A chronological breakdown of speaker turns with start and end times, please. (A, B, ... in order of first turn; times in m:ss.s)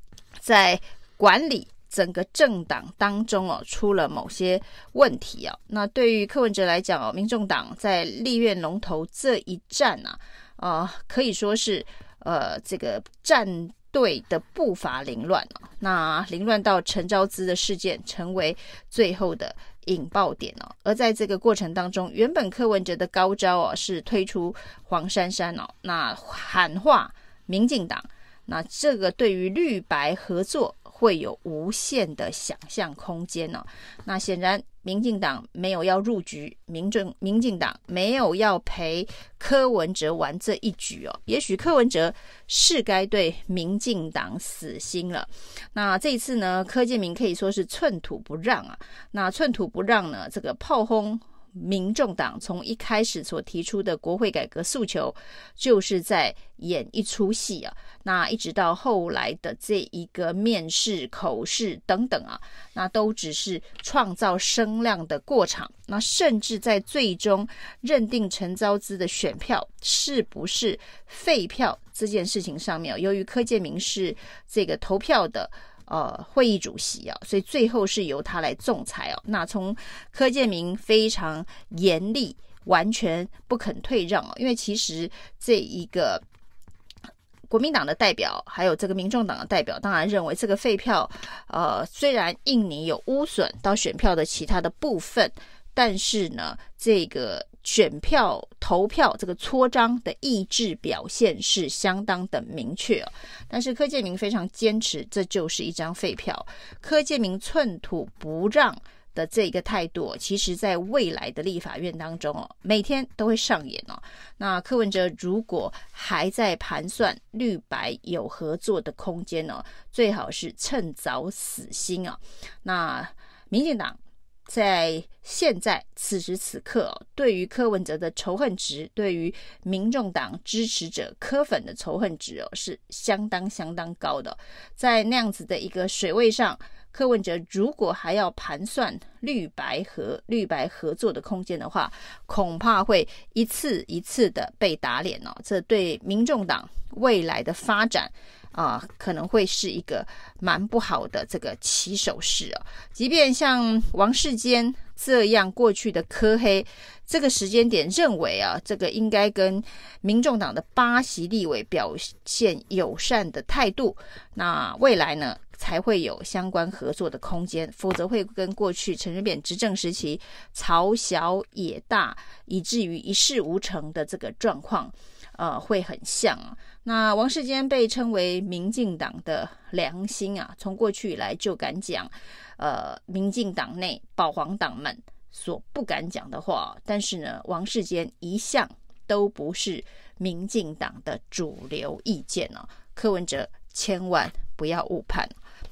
0:00.4-1:26.2 A
1:27.5-3:15.3 A